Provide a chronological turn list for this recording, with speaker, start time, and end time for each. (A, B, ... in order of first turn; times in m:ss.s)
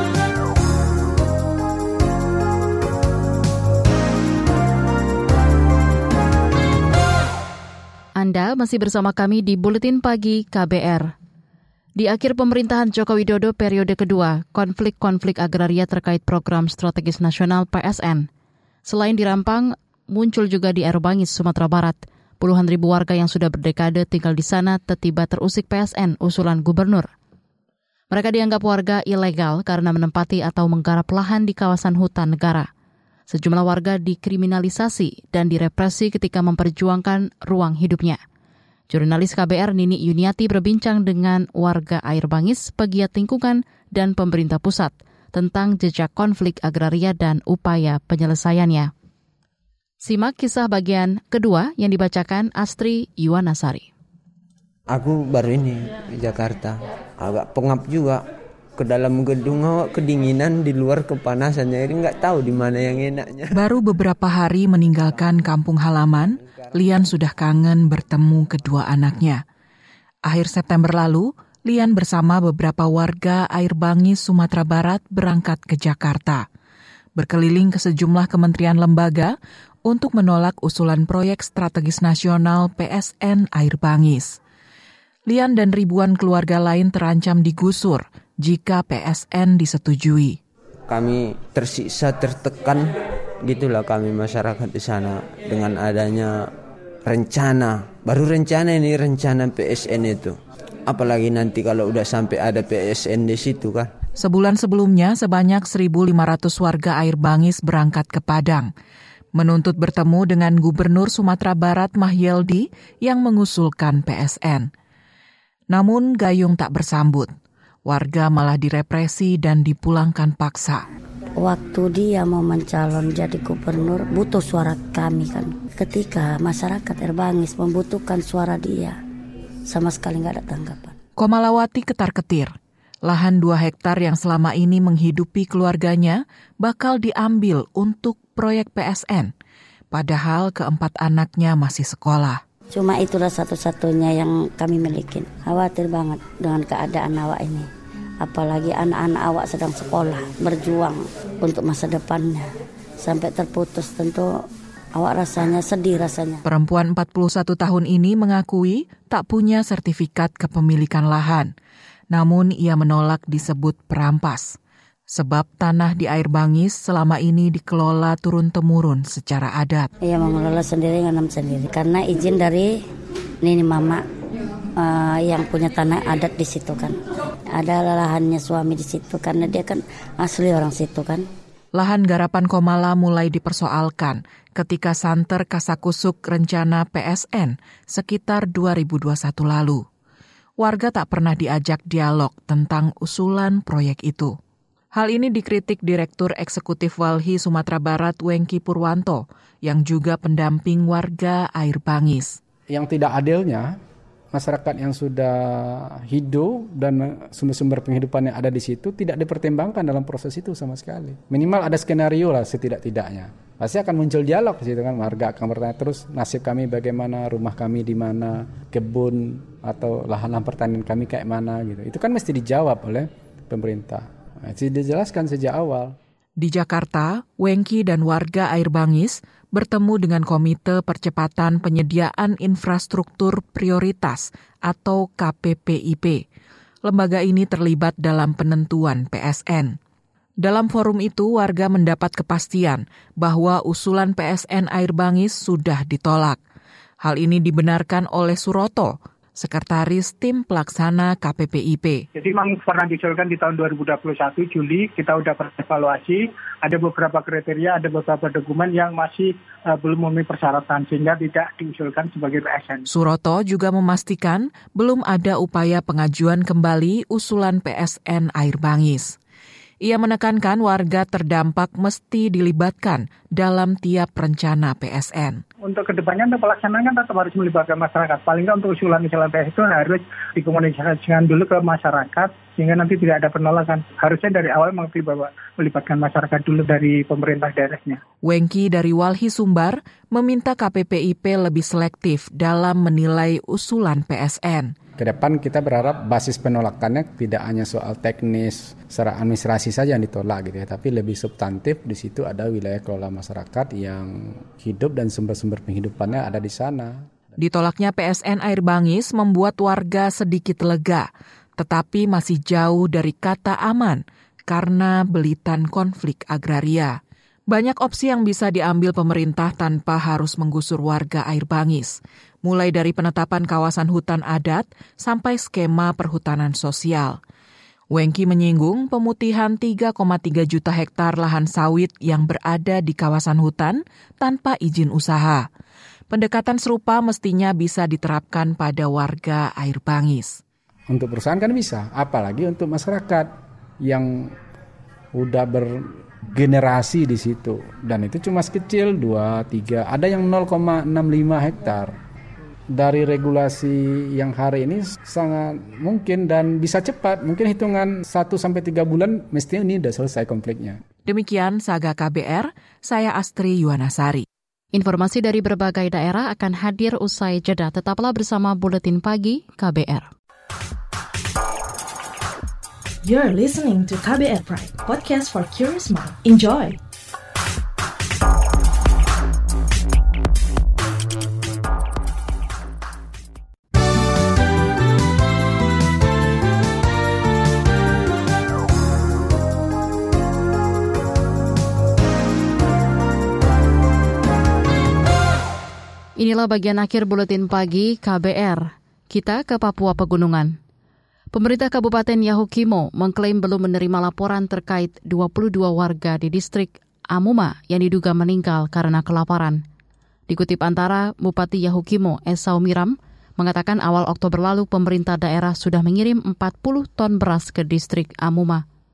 0:08.2-0:11.1 A
0:12.0-0:18.3 A
0:18.8-0:27.1 A
0:28.1-0:32.7 A
0:33.3-0:38.2 A
0:38.9-0:48.9 A
0:50.0-0:53.9 A
0:54.9-0:58.2 B
0:58.8-1:03.5 B
1:03.5-1:09.4 C
1:10.2-1:16.4 C
1:17.2-1:24.4 C
1:25.3-1:30.4 C
1:30.9-1:32.9 B
1:33.4-1:36.4 B
1:37.0-1:40.3 B
1:40.8-1:43.9 B
1:44.2-1:48.7 C
1:49.3-1:54.7 C
1:55.7-1:57.3 C
1:57.8-2:00.8 C
2:01.4-2:09.0 D
2:09.7-2:10.9 D
2:11.2-2:12.5 C
2:13.0-2:19.3 C
2:19.9-2:22.4 C
2:22.7-2:27.7 D
2:28.2-2:32.4 D
2:33.0-2:34.3 D
2:35.0-2:36.4 D
2:36.4-2:41.5 C
2:42.1-2:44.6 C
2:45.1-2:49.9 C
2:50.0-2:52.8 D
2:53.4-2:54.0 D
2:54.8-2:56.9 D
2:57.5-3:01.2 D
3:01.7-3:09.8 C
3:10.6-3:14.3 C
3:14.9-3:22.4 C
3:22.7-3:23.8 E
3:24.3-3:46.0 E
3:46.4-3:56.2 C
3:56.8-3:59.8 C
4:00.4-4:06.4 C
4:07.0-4:12.0 C
4:12.1-4:22.8 F
4:22.9-4:29.2 C
4:29.8-4:35.4 C
4:35.6-4:48.0 F
4:48.2-4:54.7 C
4:55.0-5:07.1 E
5:07.4-5:11.1 C
5:11.6-5:17.0 C
5:17.5-5:27.2 C
5:27.9-5:35.5 C
5:36.1-5:40.4 C
5:40.9-5:44.3 E
5:45.1-5:51.9 E
5:52.7-6:00.8 E
6:01.0-6:04.2 C
6:04.7-6:10.1 A
6:13.0-6:16.8 G
6:36.2-6:40.6 A
6:41.3-6:49.6 A
6:50.3-6:58.6 A